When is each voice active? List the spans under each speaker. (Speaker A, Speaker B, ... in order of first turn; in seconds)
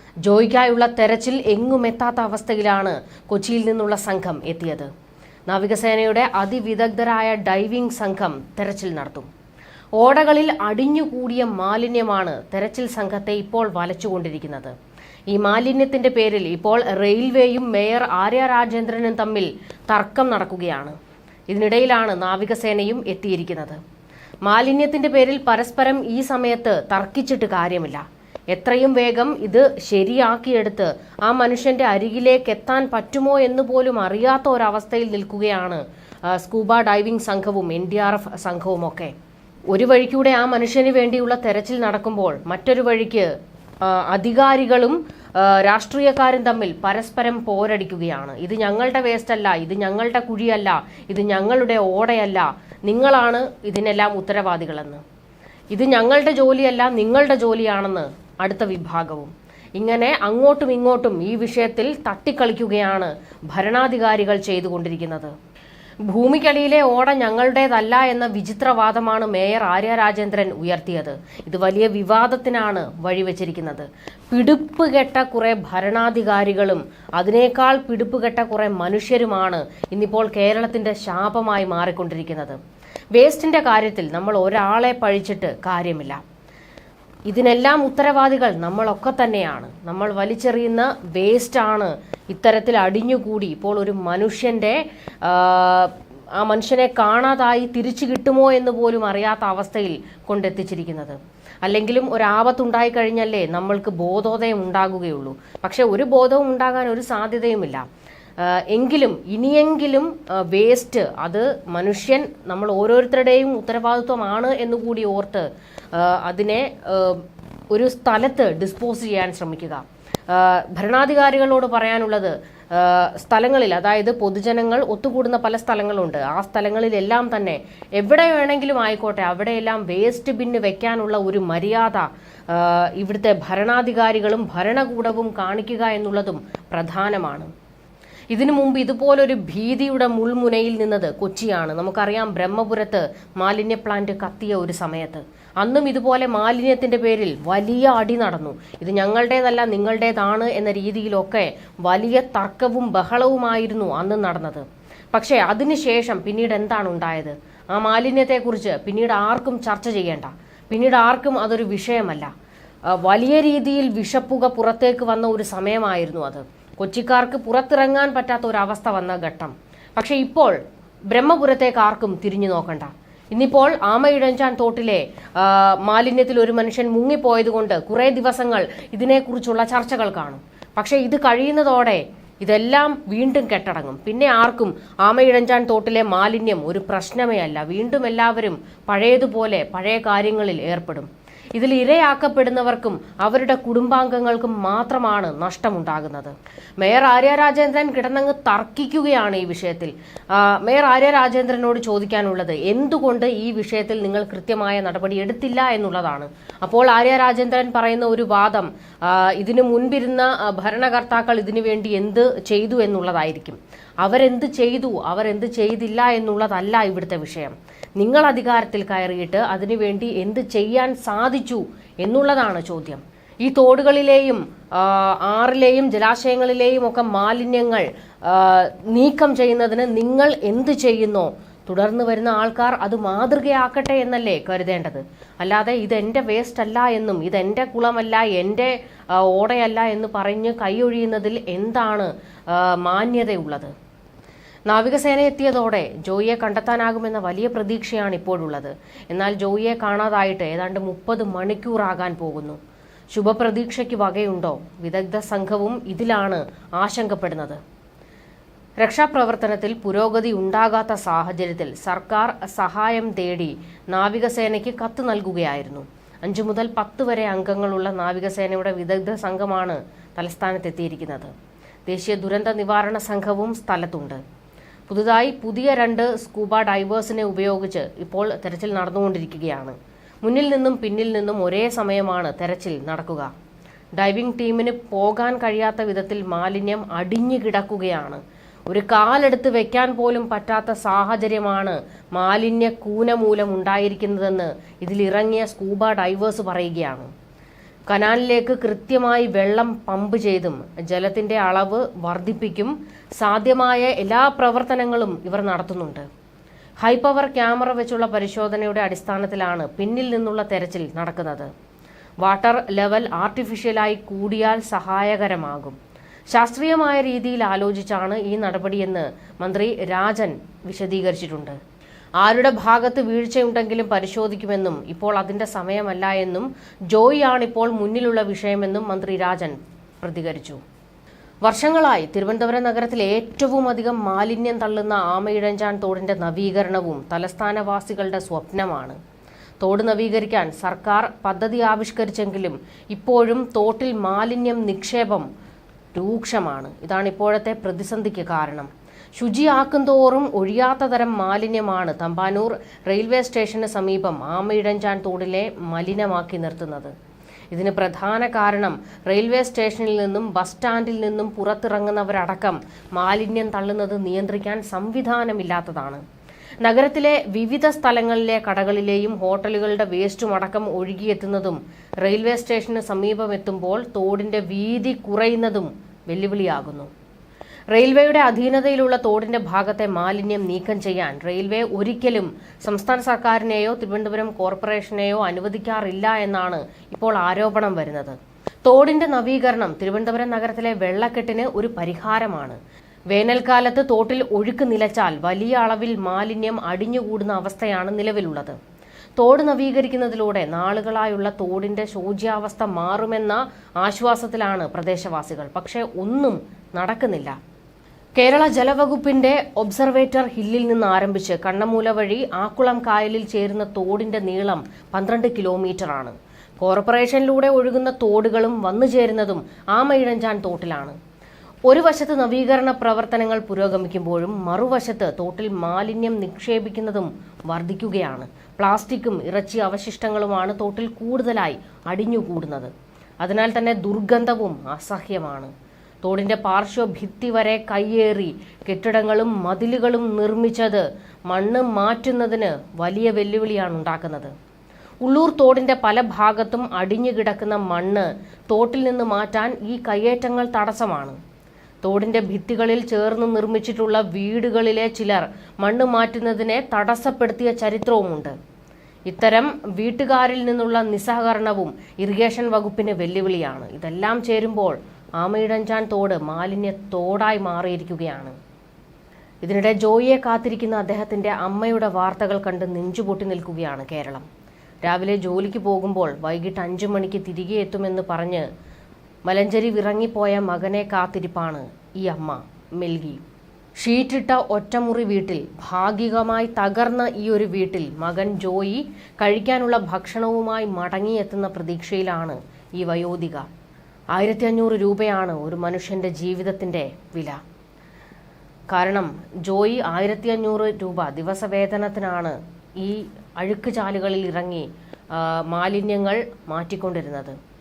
Speaker A: 0.2-4.9, 5.5-9.3, 10.0-14.7, 15.3-21.0, 21.5-23.8, 24.4-39.1, 39.7-43.3, 43.8-55.0, 55.7-65.3, 66.1-82.6, 83.2-86.2, 87.3-107.8, 108.4-137.5, 138.3-162.3, 162.9-170.6, 171.1-243.7, 244.7-252.6, 253.1-257.6, 258.8-271.3, 271.9-274.2, 274.9-283.3, 283.9-297.1, 297.9-306.1, 306.8-311.5, 312.2-315.8, 316.3-321.6, 322.2-330.6, 331.4-339.0, 339.6-345.3, 345.9-356.9, 357.5-366.0, 366.6-376.9, 377.7-392.6, 393.1-398.6, 399.2-407.4, 408.2-421.0, 421.7-432.7, 433.2-435.5, 436.0-444.3, 445.0-451.2, 451.8-458.3, 459.1-468.3, 469.4-474.2, 474.8-478.5, 479.2-483.2, 483.8-493.5, 494.1-497.4, 498.7-507.4